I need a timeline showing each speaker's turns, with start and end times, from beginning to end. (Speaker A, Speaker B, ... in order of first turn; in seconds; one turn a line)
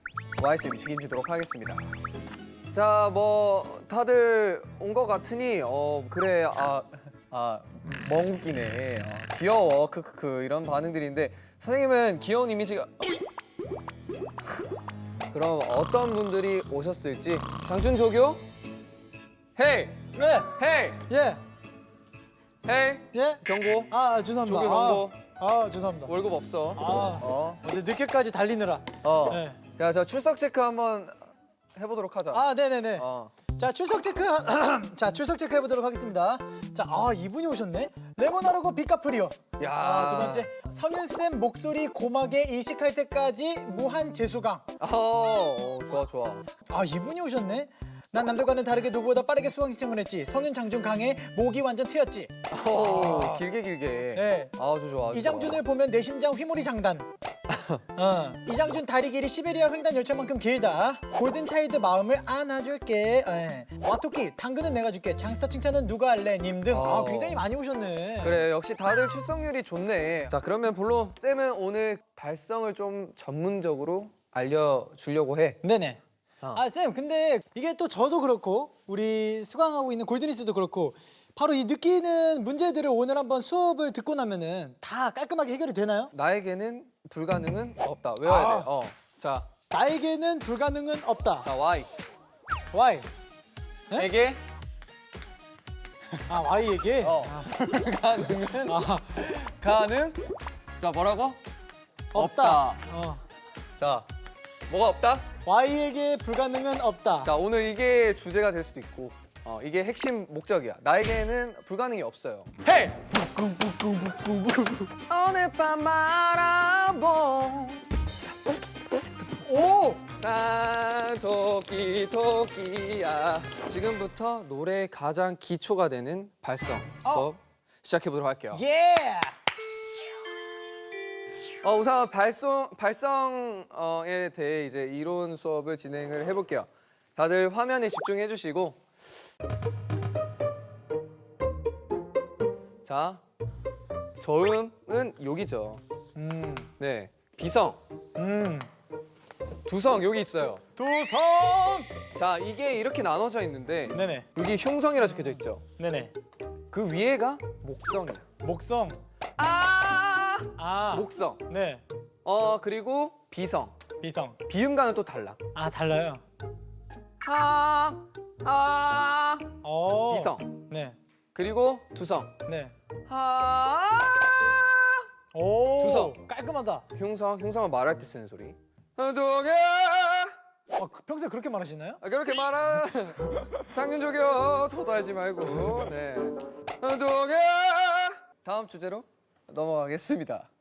Speaker A: 0.4-1.9
Speaker A: 2.7-13.2
Speaker A: 15.3-18.4
Speaker A: 19.6-21.0
Speaker B: 20.1-20.5
Speaker B: 21.1-21.4
Speaker A: 22.6-23.9
Speaker B: 23.1-26.1
Speaker A: 24.4-25.2
Speaker A: 26.1-27.6
Speaker B: 26.7-29.6
Speaker A: 29.0-31.2
Speaker A: 31.8-32.4
Speaker B: 32.3-33.0
Speaker A: 33.0-33.3
Speaker B: 33.5-44.6
Speaker A: 39.6-40.5
Speaker A: 44.8-46.4
Speaker B: 46.7-53.5
Speaker A: 52.5-55.6
Speaker B: 54.1-54.5
Speaker B: 55.1-57.1
Speaker A: 57.5-57.8
Speaker B: 57.9-68.4
Speaker A: 66.7-67.4
Speaker A: 68.2-75.6
Speaker B: 75.6-76.0
Speaker B: 76.5-86.1
Speaker A: 86.1-89.5
Speaker B: 88.2-88.7
Speaker B: 89.7-91.5
Speaker A: 91.4-91.9
Speaker B: 92.7-93.1
Speaker A: 93.9-94.4
Speaker B: 96.2-99.2
Speaker A: 97.0-100.2
Speaker A: 100.8-101.4
Speaker B: 102.1-103.2
Speaker A: 102.1-102.8
Speaker A: 103.8-104.1
Speaker A: 104.7-105.3
Speaker B: 105.4-107.3
Speaker A: 107.2-119.4
Speaker B: 119.4-120.0
Speaker A: 120.2-128.6
Speaker B: 128.5-129.3
Speaker A: 131.6-138.8
Speaker A: 142.8-143.2
Speaker A: 144.2-145.8
Speaker B: 146.1-146.7
Speaker A: 146.8-147.8
Speaker B: 148.2-148.7
Speaker A: 149.6-150.6
Speaker B: 150.8-151.9
Speaker A: 152.1-155.6
Speaker B: 153.9-154.2
Speaker B: 155.8-156.1
Speaker A: 156.7-158.2
Speaker B: 158.4-159.0
Speaker A: 159.4-161.4
Speaker B: 160.6-161.8
Speaker A: 162.2-163.8
Speaker B: 164.0-164.4
Speaker A: 164.4-165.4
Speaker B: 165.5-166.2
Speaker A: 167.2-169.6
Speaker B: 169.6-170.9
Speaker A: 170.1-170.6
Speaker A: 171.3-172.3
Speaker B: 172.4-172.7
Speaker A: 173.1-174.8
Speaker B: 175.3-176.8
Speaker A: 175.8-176.2
Speaker A: 176.9-180.3
Speaker B: 180.8-182.0
Speaker A: 182.0-190.5